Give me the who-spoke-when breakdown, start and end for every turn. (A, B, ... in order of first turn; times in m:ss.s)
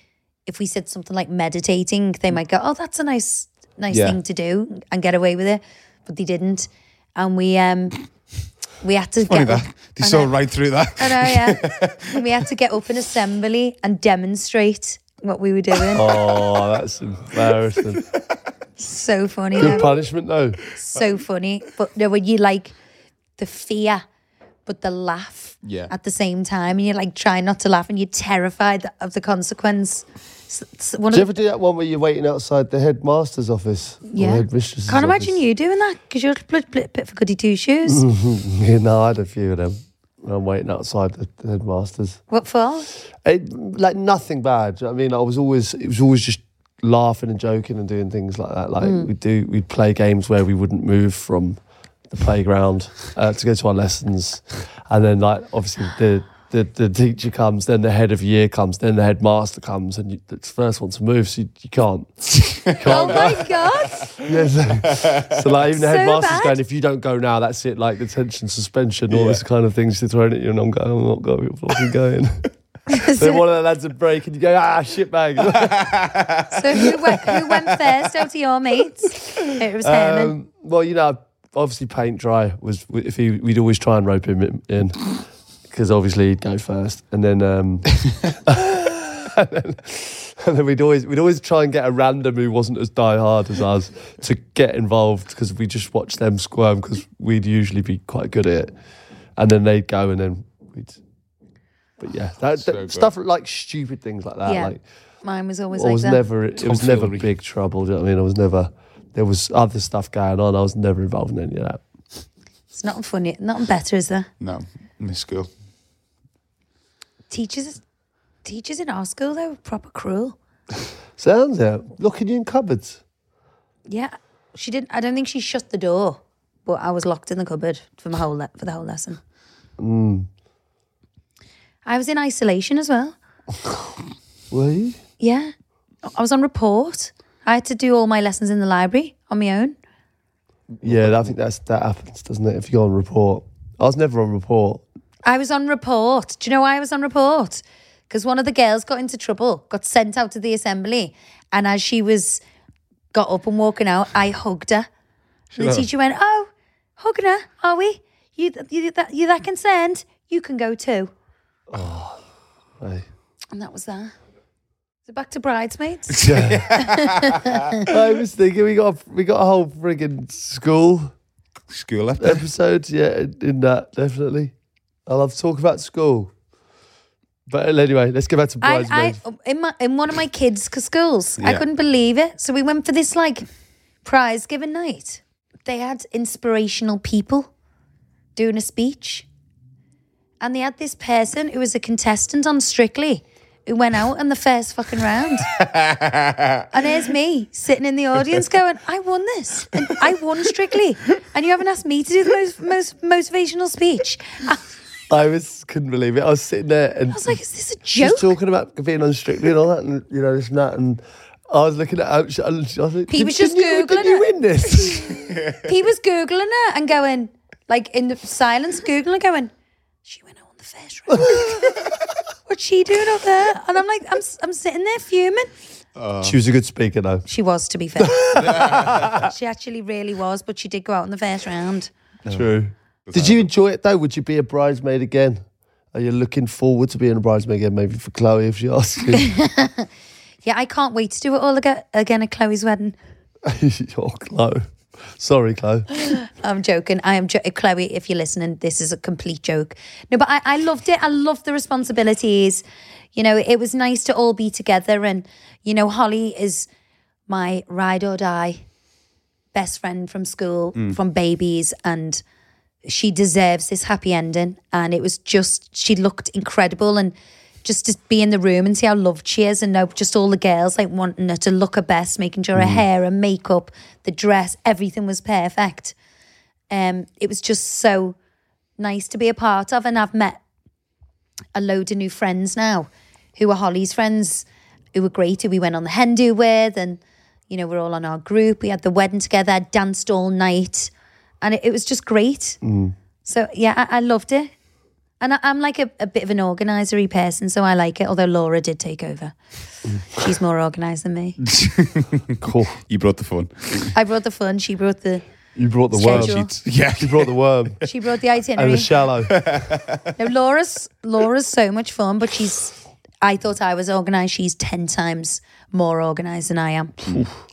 0:00.5-0:08.0 A
0:03.9-0:04.2 B
0:08.8-0:10.3 A
0:09.2-0:12.1 B
0:11.0-0:16.0 A
0:15.9-0:18.0 C
0:18.8-0:19.9 A
0:19.6-0:20.6 C
0:20.7-0:22.8 A
0:23.4-0:24.0 A
0:24.7-0:31.3 A
0:25.6-0:25.9 B
0:31.1-0:35.4 C
0:34.1-0:38.0 A
0:37.9-0:42.2 C
0:42.3-0:42.9 A
0:43.2-1:03.5 C
0:48.8-0:49.1 A
1:02.7-1:03.3 B
1:02.8-1:04.1 A
1:03.9-1:04.3 B
1:04.2-1:12.5 C
1:05.0-1:05.3 B
1:05.7-1:06.6 A
1:09.1-1:09.4 B
1:12.9-1:13.4 A
1:13.1-1:16.1 C
1:15.6-1:16.5 B
1:16.5-1:20.4 A
1:19.8-1:25.1 C
1:25.7-1:38.7 C
1:39.4-1:41.0 C
1:42.0-1:44.8 C
1:42.7-1:43.1 B
1:44.5-1:46.2 A
1:45.7-1:51.8 C
1:46.6-1:47.3 B
1:52.7-1:54.3 A
1:54.4-1:55.5 B
1:57.3-1:57.8 A
1:58.4-2:00.4 A
2:01.2-2:03.0 C
2:03.9-2:09.2 A
2:09.8-2:10.3 C
2:11.9-2:13.2 A
2:14.5-2:15.0 C
2:15.2-2:15.5 A
2:16.1-2:19.8 A
2:20.8-2:21.2 B
2:20.8-2:24.8 C
2:25.2-2:32.4 A
2:33.1-2:34.9 A
2:35.6-2:35.9 B
2:35.6-2:41.1 A
2:41.7-2:42.2 C
2:42.8-2:43.1 C
2:43.5-2:44.1 A
2:45.1-2:46.2 A
2:46.2-2:47.6 B
2:46.2-2:46.7 C
2:46.7-2:47.8 A
2:47.9-2:51.1 C
2:51.7-2:52.4 B
2:52.2-2:54.5 C
2:55.1-2:56.3 C
2:57.5-2:59.2 C
2:58.6-3:03.5 A
3:04.0-3:07.5 A
3:08.4-3:09.3 A
3:10.4-3:15.5 A
3:15.6-3:16.6 B
3:16.7-3:24.7 A
3:25.1-3:27.4 C
3:27.1-3:28.4 A
3:28.0-3:35.3 C
3:33.1-3:34.3 A
3:35.0-3:39.5 A
3:40.1-3:41.8 A
3:42.5-3:45.5 A
3:46.0-3:46.4 B
3:46.2-3:47.3 C
3:47.3-3:48.6 A
3:48.0-3:49.3 C
3:48.5-3:49.1 B
3:49.2-3:51.9 A
3:52.3-3:55.4 C
3:53.1-3:53.5 B
3:55.9-3:59.3 C
3:59.2-3:59.9 A
4:00.4-4:03.0 A
4:03.4-4:05.9 C
4:06.1-4:12.6 A
4:13.2-4:16.7 A
4:17.3-4:18.6 A
4:19.5-4:22.2 A
4:22.8-4:36.0 A
4:36.7-4:38.2 A
4:38.8-4:40.4 A
4:41.6-4:50.9 A
4:51.4-4:52.6 A
4:52.6-4:52.9 C
4:53.2-4:54.5 A
4:55.2-4:59.4 A
5:00.1-5:01.4 A
5:01.5-5:02.3 B
5:02.4-5:02.8 C
5:02.9-5:03.9 B
5:03.9-5:05.2 A
5:05.6-5:07.8 C
5:05.9-5:06.5 A
5:06.0-5:07.9 B
5:07.9-5:08.9 A
5:08.6-5:09.5 C
5:09.3-5:10.0 B
5:10.2-5:17.1 A